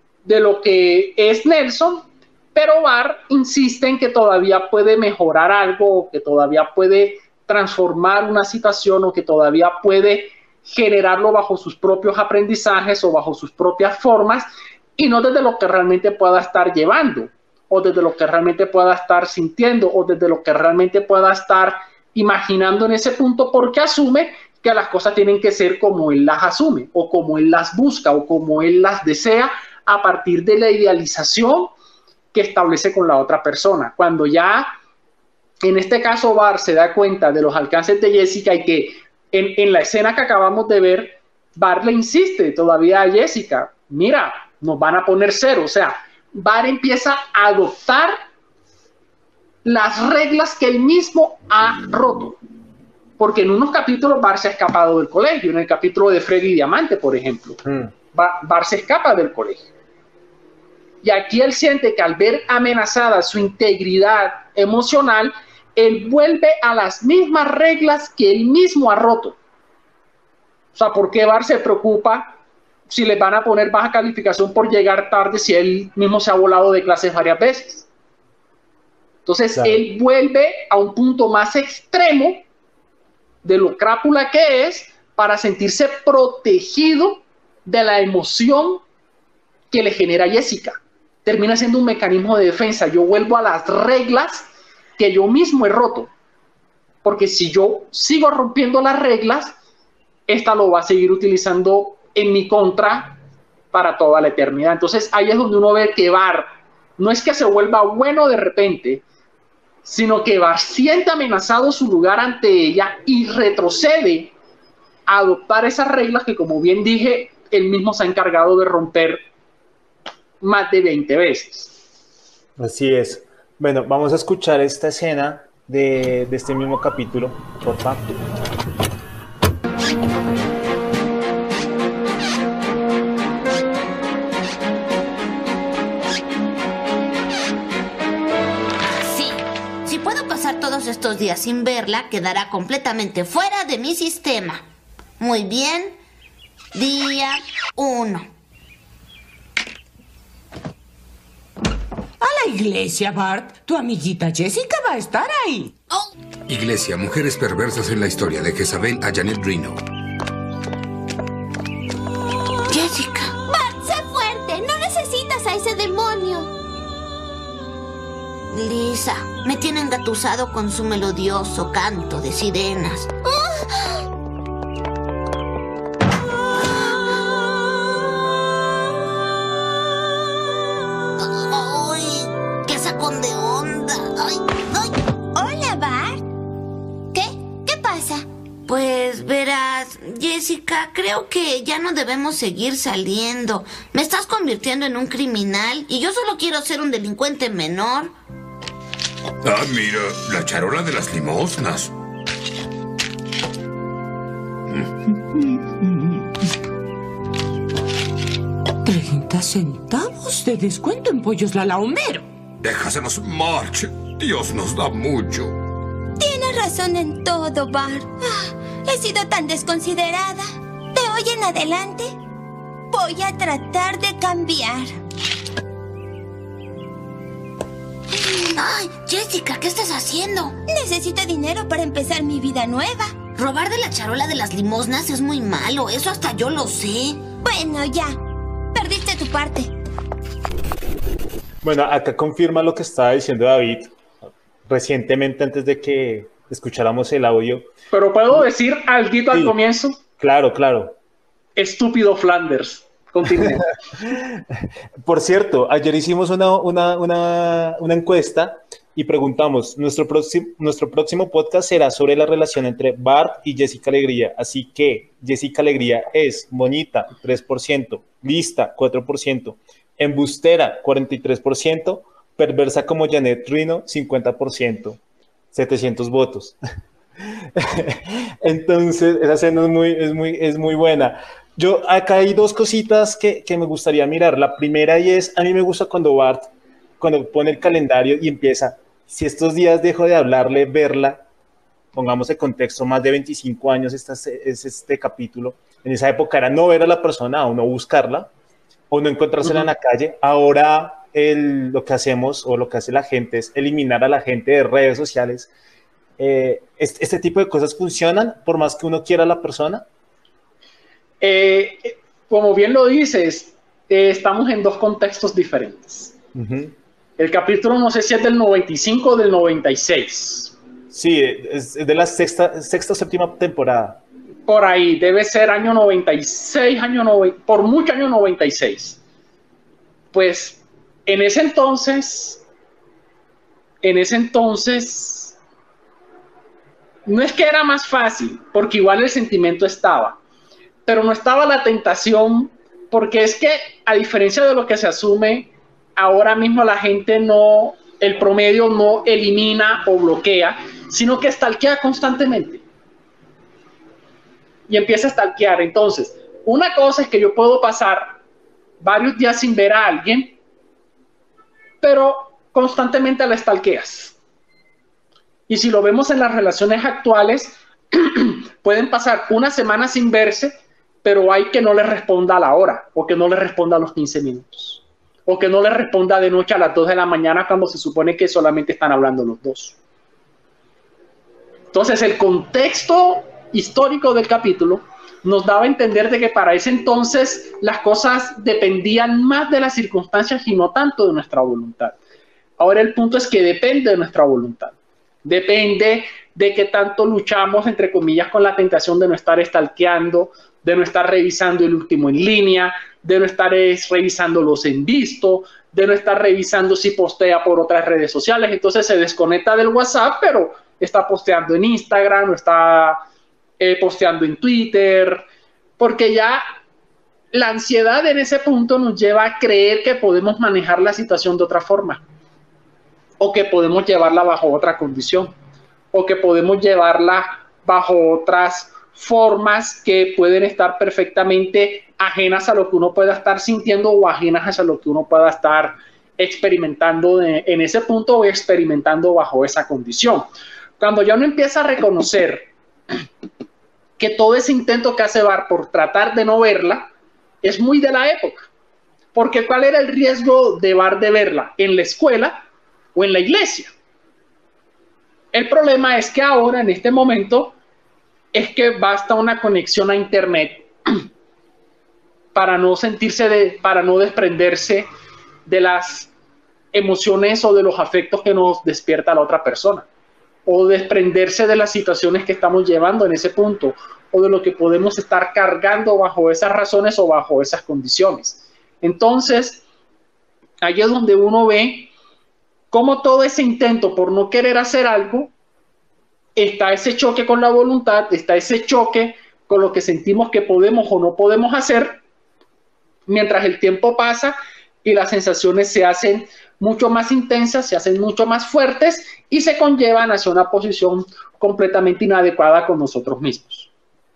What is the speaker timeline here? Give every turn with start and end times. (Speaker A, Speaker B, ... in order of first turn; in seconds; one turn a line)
Speaker A: 0.2-31.7
Speaker A: 32.3-34.7
Speaker A: 35.6-48.2
Speaker A: 49.6-52.4
Speaker A: 53.2-57.6
Speaker B: 57.6-57.9
Speaker A: 58.1-59.7
Speaker A: 61.0-69.4
Speaker A: 70.8-72.4
Speaker A: 72.9-77.9
Speaker A: 79.3-82.5
Speaker A: 83.4-88.8
Speaker A: 89.7-96.1
Speaker A: 97.0-99.5
Speaker A: 100.3-103.2
Speaker A: 103.7-109.0
Speaker A: 109.8-114.3
Speaker A: 115.1-119.2
Speaker A: 120.4-121.8
Speaker B: 122.6-128.0
Speaker C: 139.0-144.7
Speaker C: 145.2-145.9
Speaker C: 146.7-148.3
Speaker D: 152.2-155.8
Speaker E: 156.5-159.8
Speaker C: 162.7-163.4
Speaker F: 163.5-166.5
Speaker C: 168.5-173.1
Speaker F: 173.3-174.0
Speaker C: 181.2-184.9
Speaker F: 185.3-186.2
Speaker F: 187.1-188.2
Speaker C: 188.7-198.1
Speaker E: 199.4-201.9
Speaker D: 208.8-212.3
Speaker E: 212.6-215.6
Speaker F: 216.2-222.2
Speaker F: 222.9-224.9
Speaker C: 228.5-230.6
Speaker F: 230.7-233.2
Speaker C: 233.3-237.2
Speaker F: 237.4-238.2
Speaker F: 238.7-239.7
Speaker B: 241.6-243.9
Speaker B: 244.7-247.7
Speaker A: 247.9-250.0
Speaker B: 249.3-249.6
Speaker B: 250.2-251.0
Speaker A: 251.6-253.7
Speaker B: 253.3-275.0
Speaker B: 275.5-276.6
Speaker B: 277.2-291.2
Speaker B: 291.9-298.3
Speaker B: 298.9-305.5
Speaker B: 306.2-309.9
Speaker A: 311.2-316.1
Speaker B: 316.3-316.8
Speaker A: 317.2-320.6
Speaker B: 320.9-324.0
Speaker A: 324.5-329.0
Speaker A: 330.1-332.4
Speaker A: 333.8-335.4
Speaker A: 337.1-340.2
Speaker A: 340.9-352.6
Speaker A: 354.7-358.2
Speaker A: 358.8-360.4
Speaker A: 361.8-364.2
Speaker A: 365.5-379.8
Speaker A: 381.7-392.0
Speaker A: 392.6-413.0
Speaker A: 413.6-415.3
Speaker A: 415.8-416.4
Speaker A: 417.3-422.1
Speaker A: 423.2-425.3
Speaker A: 425.9-440.3
Speaker A: 440.8-442.5
Speaker A: 444.0-446.9
Speaker A: 447.4-448.5
Speaker A: 449.1-453.7
Speaker A: 455.3-457.6
Speaker A: 458.3-460.7
Speaker A: 462.4-464.9
Speaker A: 465.5-466.1
Speaker A: 466.7-469.9
Speaker A: 470.5-479.6
Speaker A: 480.6-481.9
Speaker A: 482.7-485.3
Speaker A: 486.4-492.0
Speaker A: 493.1-503.7